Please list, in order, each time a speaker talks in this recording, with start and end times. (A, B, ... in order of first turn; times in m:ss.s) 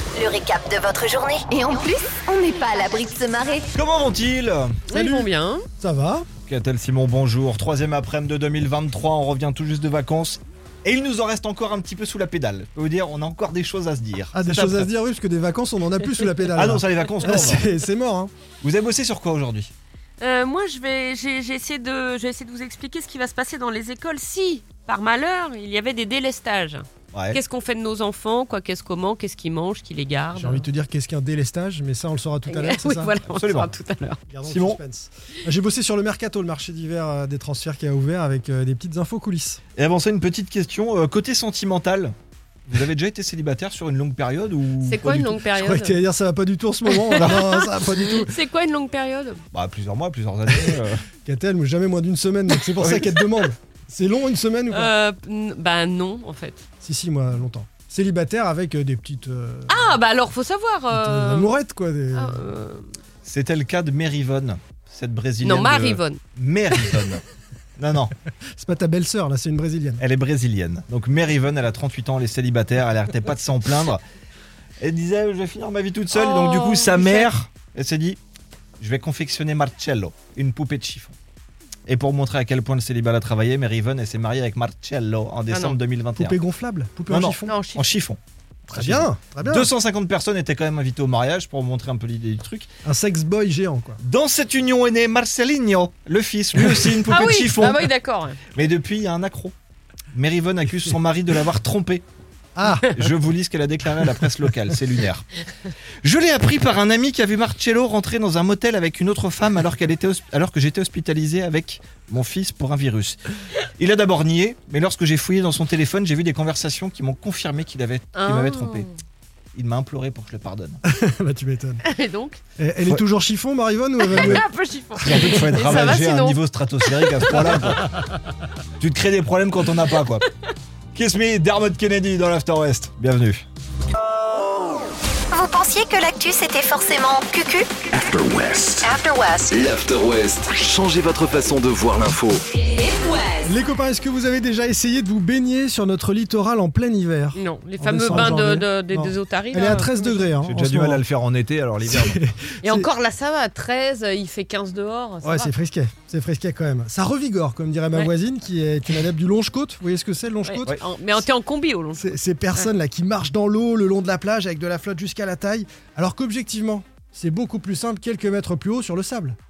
0:00.1-0:03.7 A
0:03.7-0:04.8 B
0:04.9-0:05.6 C
0:04.9-0:06.3 D
0:06.5-0:14.9 B
0:14.3-0:18.3 D
0:16.6-0:17.6 B
0:18.6-0:19.7 B
0:20.2-0:30.6 C
0:27.1-0:27.4 B
0:30.3-0:33.1 D
0:32.5-0:34.2 C
0:33.3-0:33.7 B
0:34.3-0:39.6 D
0:34.4-0:34.8 B
0:39.8-0:42.1 B
0:42.7-0:45.4 B
0:44.8-0:46.0 C
0:45.6-0:48.3 D
0:46.9-0:49.4 C
0:49.5-0:51.0 B
0:51.2-0:54.9 D
0:52.8-0:53.3 B
0:54.7-0:56.6 C
0:56.8-1:00.0 D
0:59.7-1:01.5 C
1:00.9-1:02.4 D
1:02.1-1:02.9 C
1:03.2-1:07.2 B
1:05.4-1:06.2 C
1:07.8-1:08.1 B
1:08.6-1:10.0 D
1:10.0-1:14.0 B
1:14.8-1:18.2 B
1:16.1-1:17.3 C
1:18.8-1:21.1 B
1:21.9-1:26.4 B
1:25.5-1:25.8 C
1:26.2-1:27.6 D
1:27.1-1:28.2 B
1:27.4-1:27.8 C
1:28.7-1:29.7 D
1:28.7-1:32.7 B
1:32.8-1:34.0 D
1:34.0-1:37.9 B
1:37.0-1:38.4 C
1:38.5-1:39.5 B
1:40.1-1:42.0 B
1:42.5-1:42.9 D
1:42.9-1:45.3 B
1:46.0-1:58.9 B
1:58.1-1:58.9 C
1:59.5-2:00.8 B
2:00.8-2:01.8 D
2:01.8-2:02.4 C
2:02.6-2:04.4 D
2:04.1-2:07.6 C
2:04.1-2:04.4 B
2:05.0-2:07.9 B
2:05.1-2:05.7 D
2:08.8-2:10.3 B
2:10.9-2:13.4 B
2:15.3-2:17.7 A
2:17.9-2:18.9 E
2:18.8-2:19.5 A
2:19.5-2:22.4 E
2:23.4-2:31.0 D
2:27.3-2:30.3 C
2:30.4-2:32.2 B
2:31.9-2:32.9 D
2:32.6-2:35.5 C
2:35.2-2:40.8 D
2:40.4-2:42.6 C
2:42.0-2:49.4 D